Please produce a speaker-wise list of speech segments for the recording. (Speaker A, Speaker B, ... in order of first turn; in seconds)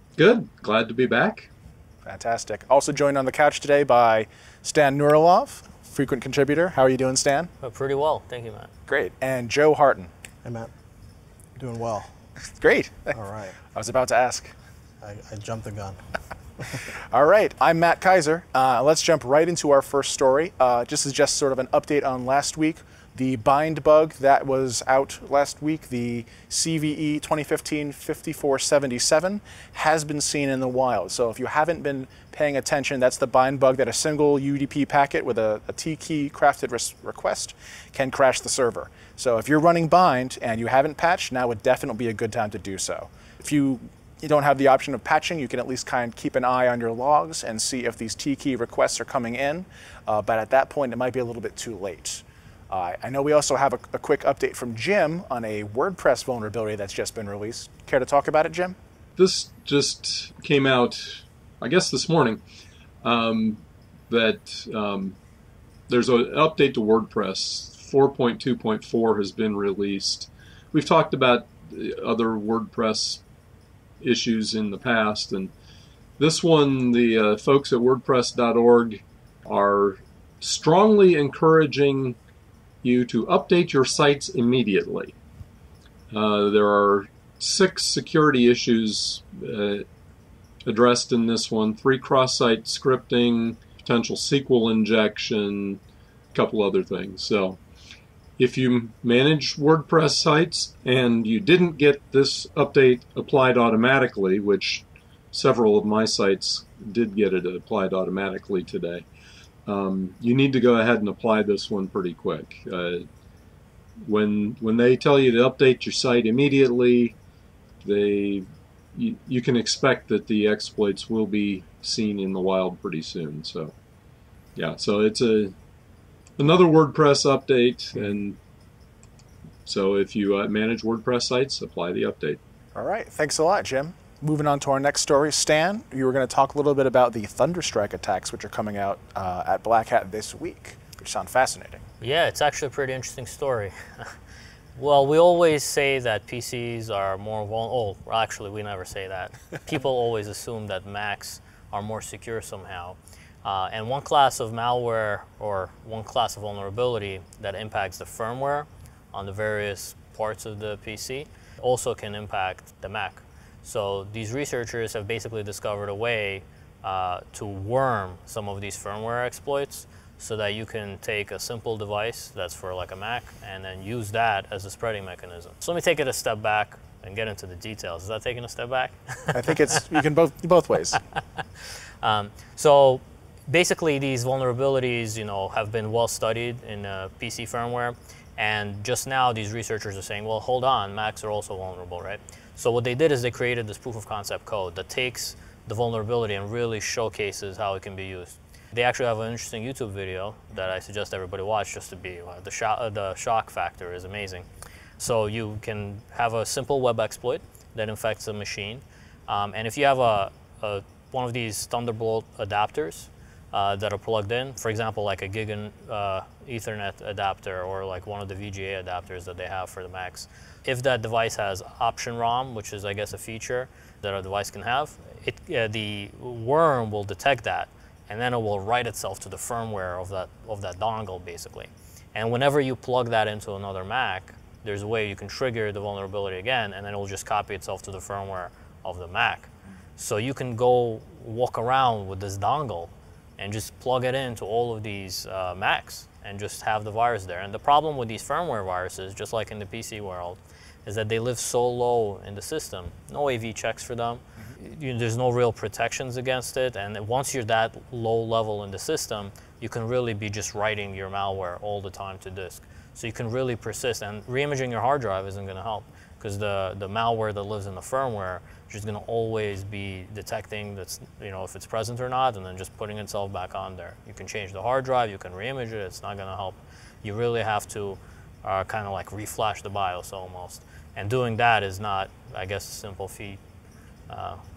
Speaker A: 0.2-1.5, 59.2-62.4, 63.0-65.2, 65.9-73.2, 74.0-75.5, 76.2-82.2, 82.8-85.1, 86.1-89.9, 90.6-95.8, 96.3-97.6, 98.4-109.0, 109.7-113.0, 114.0-117.1, 117.8-123.7, 124.5-125.5, 126.4-128.4, 129.7-132.4
Speaker B: 2.0-7.5, 8.9-10.1, 12.5-13.2, 13.7-14.5, 17.1-58.8, 132.8-141.8, 179.3-181.0
Speaker C: 7.6-8.7, 142.0-144.1, 144.8-179.8, 181.1-204.4, 205.0-283.4, 284.1-284.4
Speaker D: 10.4-10.7, 11.6-12.1, 13.1-13.6, 15.0-16.0